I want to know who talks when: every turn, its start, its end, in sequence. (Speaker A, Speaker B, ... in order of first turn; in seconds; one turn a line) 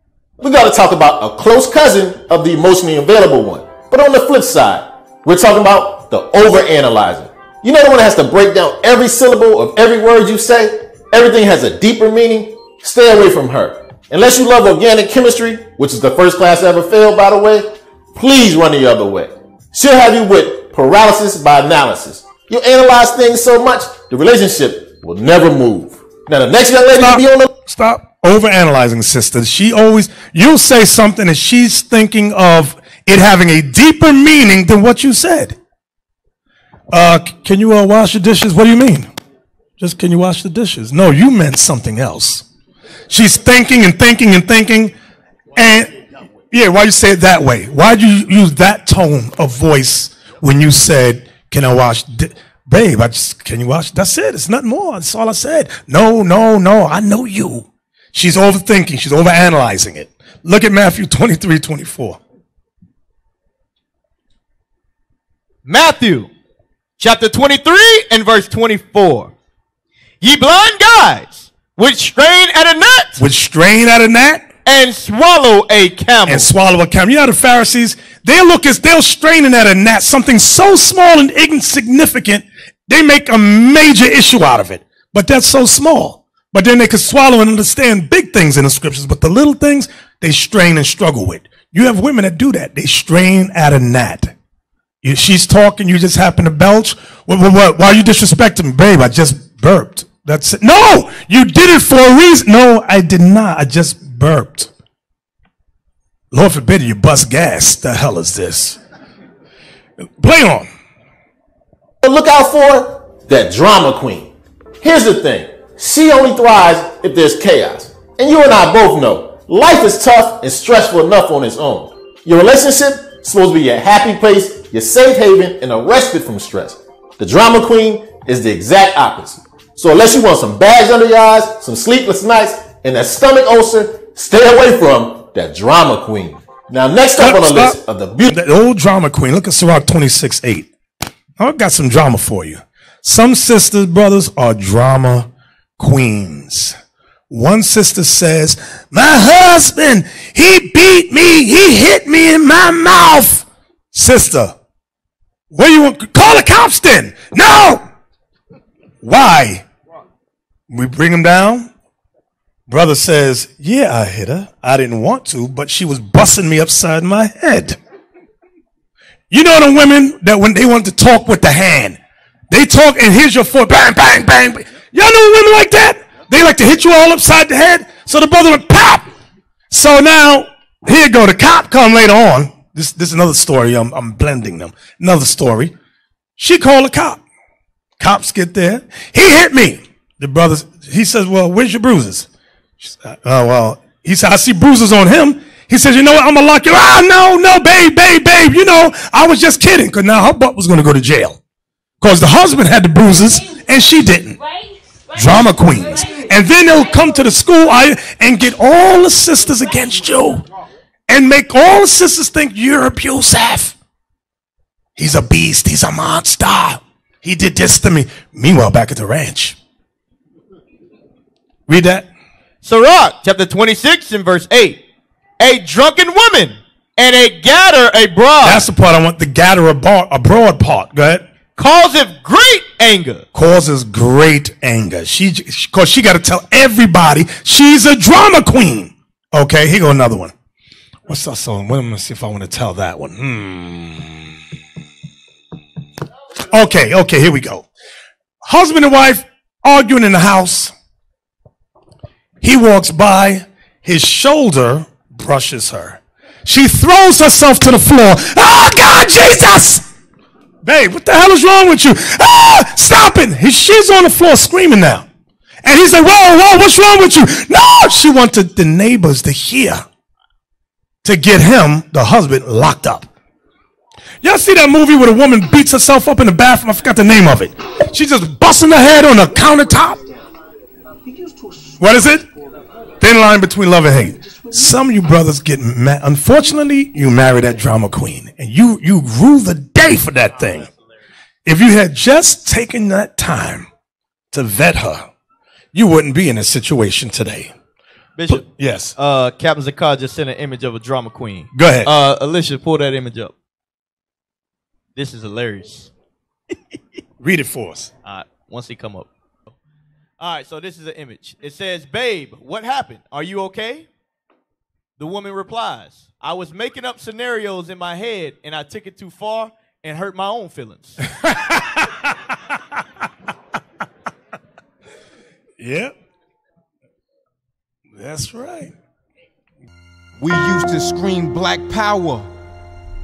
Speaker A: 0.4-27.5
Speaker B: 26.9-35.6
Speaker B: 36.9-39.1
Speaker B: 39.8-42.5
Speaker B: 43.1-44.9
Speaker B: 45.5-45.9
Speaker B: 46.5-62.2
Speaker C: 65.7-66.3
Speaker C: 67.0-69.3
Speaker C: 70.2-73.2
Speaker B: 73.2-74.5
Speaker C: 74.7-76.5
Speaker B: 76.3-94.3
Speaker B: 95.0-104.7
Speaker B: 106.3-108.8
Speaker B: 110.2-110.7
Speaker A: 112.0-114.3
Speaker A: 114.8-138.3
Speaker B: 137.2-140.7
Speaker B: 141.4-146.8
Speaker B: 147.3-154.6
Speaker B: 155.5-157.9
Speaker B: 159.0-159.7
Speaker B: 160.7-161.7
Speaker B: 162.7-167.8
Speaker B: 169.3-179.1
Speaker B: 179.7-185.7
Speaker B: 186.4-187.2
Speaker B: 188.0-192.3
Speaker B: 192.8-201.4
Speaker B: 202.0-204.4
Speaker B: 205.1-210.5
Speaker B: 211.1-213.8
Speaker B: 215.0-219.6
Speaker B: 221.7-222.1
Speaker C: 222.6-224.8
Speaker C: 225.4-228.6
Speaker B: 228.4-231.3
Speaker C: 231.6-233.3
Speaker B: 233.3-240.3
Speaker B: 241.1-244.4
Speaker B: 246.5-247.7
Speaker B: 248.4-250.7
Speaker B: 252.4-259.9
Speaker B: 260.6-265.1
Speaker B: 265.6-269.9
Speaker B: 271.0-273.1
Speaker B: 274.2-280.0
Speaker B: 281.8-282.3
Speaker B: 283.0-290.7
Speaker B: 291.4-293.7
Speaker B: 294.3-295.1
Speaker B: 295.7-297.6
Speaker C: 298.2-303.3
Speaker B: 298.3-298.9
Speaker B: 301.5-301.9
Speaker C: 305.0-305.9
Speaker B: 307.2-307.9
Speaker C: 308.0-309.1
Speaker C: 310.2-313.9
Speaker C: 315.0-321.0
Speaker B: 321.1-322.4
Speaker B: 325.6-325.9
Speaker B: 327.9-328.8
Speaker D: 330.2-332.3